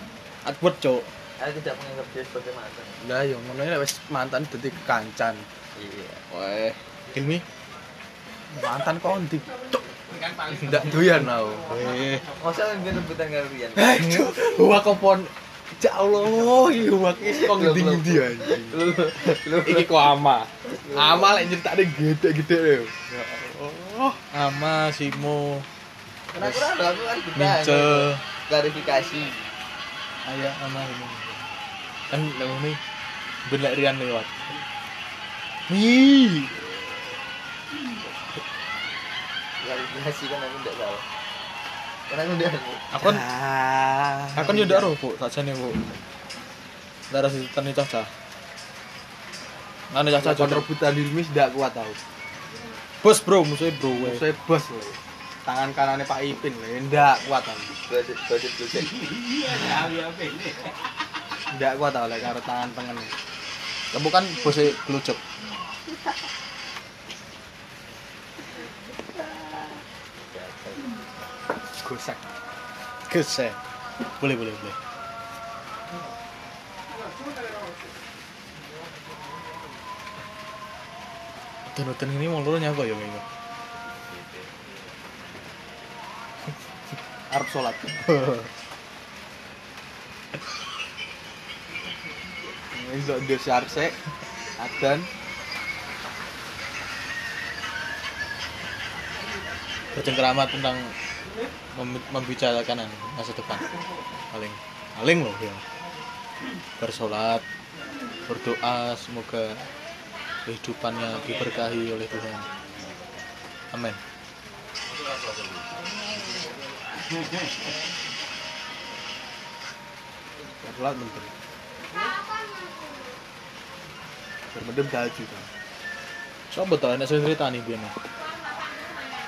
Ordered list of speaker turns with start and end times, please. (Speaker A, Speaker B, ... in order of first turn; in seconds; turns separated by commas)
Speaker A: 0.4-1.1, Speaker B: 1.4-3.0, Speaker C: 3.0-5.5, Speaker B: 5.8-6.3, Speaker A: 6.3-7.4, Speaker C: 8.5-9.8, Speaker D: 10.1-12.8, Speaker C: 10.5-11.7, Speaker A: 11.7-12.3, Speaker B: 12.4-14.3, Speaker C: 13.8-24.2, Speaker B: 17.2-20.1, Speaker B: 20.7-21.3, Speaker A: 24.3-25.7, Speaker B: 26.3-29.5, Speaker A: 26.4-26.6, Speaker A: 27.4-28.2, Speaker A: 30.2-31.3, Speaker A: 32.1-32.8, Speaker A: 33.5-34.5, Speaker A: 35.7-36.5, Speaker B: 39.6-41.0, Speaker B: 42.1-42.9, Speaker A: 42.9-43.2, Speaker C: 43.0-44.9, Speaker A: 44.4-45.8, Speaker A: 47.1-48.1, Speaker A: 49.9-50.7, Speaker C: 50.2-52.0, Speaker A: 53.0-54.2, Speaker C: 53.9-57.7, Speaker B: 57.9-59.1, Speaker D: 58.9-60.8, Speaker C: 61.5-63.1, Speaker A: 63.9-65.2, Speaker B: 70.3-70.9, Speaker C: 71.8-72.2, Speaker A: 73.1-73.6, Speaker A: 74.2-74.8, Speaker A: 81.7-83.2, Speaker B: 84.1-84.5, Speaker C: 87.3-88.0, Speaker A: 88.0-88.5, Speaker C: 92.7-94.0, Speaker C: 94.6-95.1, Speaker A: 99.9-101.0, Speaker A: 101.7-103.7, Speaker A: 104.3-105.6, Speaker A: 106.8-107.4, Speaker A: 108.3-109.7, Speaker A: 110.5-112.5, Speaker D: 111.1-112.9, Speaker A: 113.7-114.0, Speaker D: 115.0-115.3, Speaker C: 120.6-121.3, Speaker C: 124.5-125.5, Speaker A: 126.5-128.0